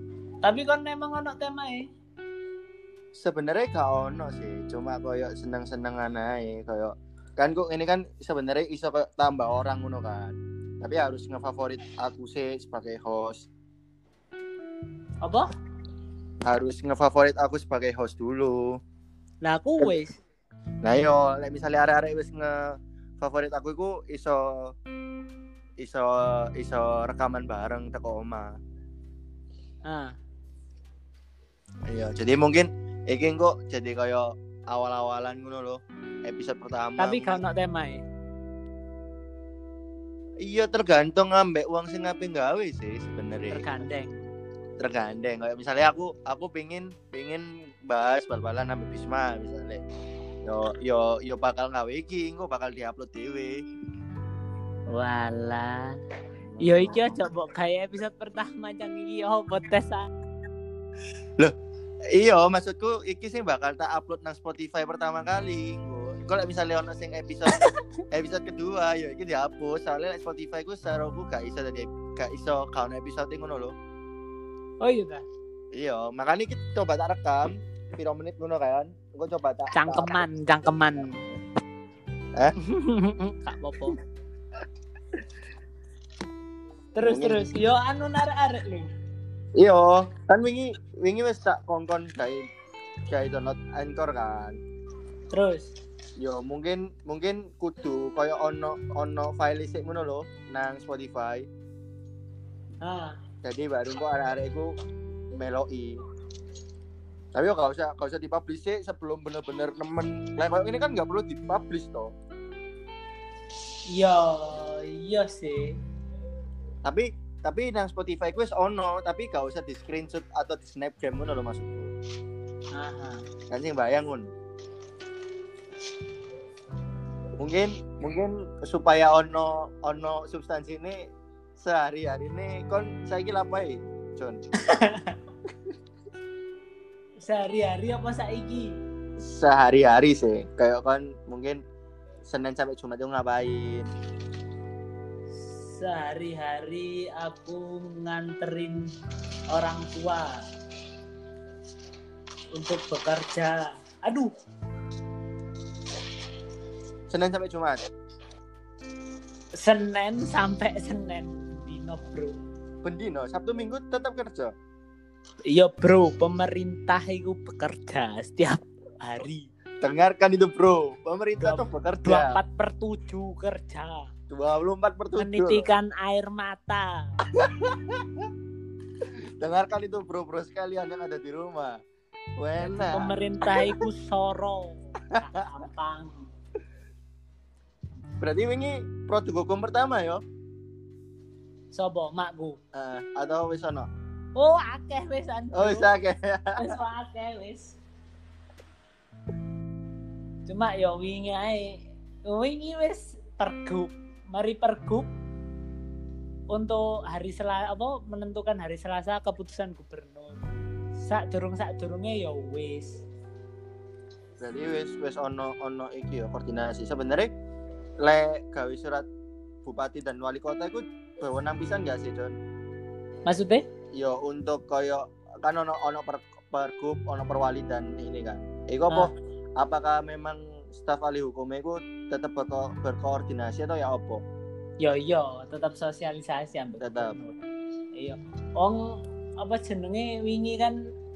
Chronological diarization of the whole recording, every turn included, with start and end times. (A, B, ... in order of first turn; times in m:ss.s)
0:00.4-0:01.9 A
0:03.2-0:13.5 B
0:15.2-0:15.5 A
0:16.4-0:18.8 B
0:19.4-0:20.2 A
0:20.8-0:24.7 B
0:25.8-0:28.6 B
0:29.8-0:30.1 A
0:31.9-0:37.4 B
0:37.0-0:38.0 A
0:40.4-0:43.7 B
0:43.5-0:44.2 A
0:44.8-0:49.8 B
0:50.4-0:53.6 B
0:54.9-0:56.0 A
0:56.5-0:57.3 B
0:56.6-1:00.1 A
1:02.1-1:07.6 B
1:08.1-1:13.7 B
1:14.8-1:15.2 A
1:15.7-1:20.2 B
1:19.7-1:21.2 A
1:22.6-1:24.0 A
1:26.9-1:28.9 A
1:27.0-1:27.4 B
1:29.6-1:32.5 B
1:33.1-1:34.6 B
1:35.3-1:35.7 A
1:36.2-1:41.5 B
1:42.8-1:43.2 A
1:43.4-1:44.7 B
1:45.3-1:46.0 B
1:47.3-1:52.1 B
1:53.9-1:55.8 A
1:56.8-2:01.9 B
2:02.7-2:03.2 A
2:03.5-2:04.3 B
2:07.4-2:14.4 B
2:14.6-2:15.2 A
2:17.2-2:18.7 A
2:19.2-2:21.6 B
2:22.2-2:23.9 B
2:25.4-2:28.9 A
2:29.5-2:30.4 A
2:32.5-2:34.3 A
2:37.1-2:37.8 B
2:39.6-2:42.4 A
2:42.8-2:44.5 B
2:45.5-2:49.5 A
2:49.8-2:52.4 B
2:51.4-2:54.1 A
2:54.3-2:55.7 B
2:55.2-2:57.1 A
2:57.4-2:58.3 B
2:59.4-3:01.8 B
3:02.4-3:03.8 B
3:02.6-3:06.3 A
3:08.2-3:10.2 B
3:11.7-3:12.6 A
3:12.7-3:13.9 B
3:14.3-3:15.9 A
3:15.5-3:16.7 B
3:16.6-3:17.8 A
3:20.5-3:25.1 A
3:26.5-3:30.4 A
3:31.0-3:33.0 A
3:34.4-3:37.3 B
3:38.0-3:39.0 B
3:39.6-3:42.4 B
3:43.2-3:43.6 A
3:43.9-3:54.2 B
3:54.8-3:57.4 A
3:56.8-3:57.2 B
3:57.9-4:00.8 A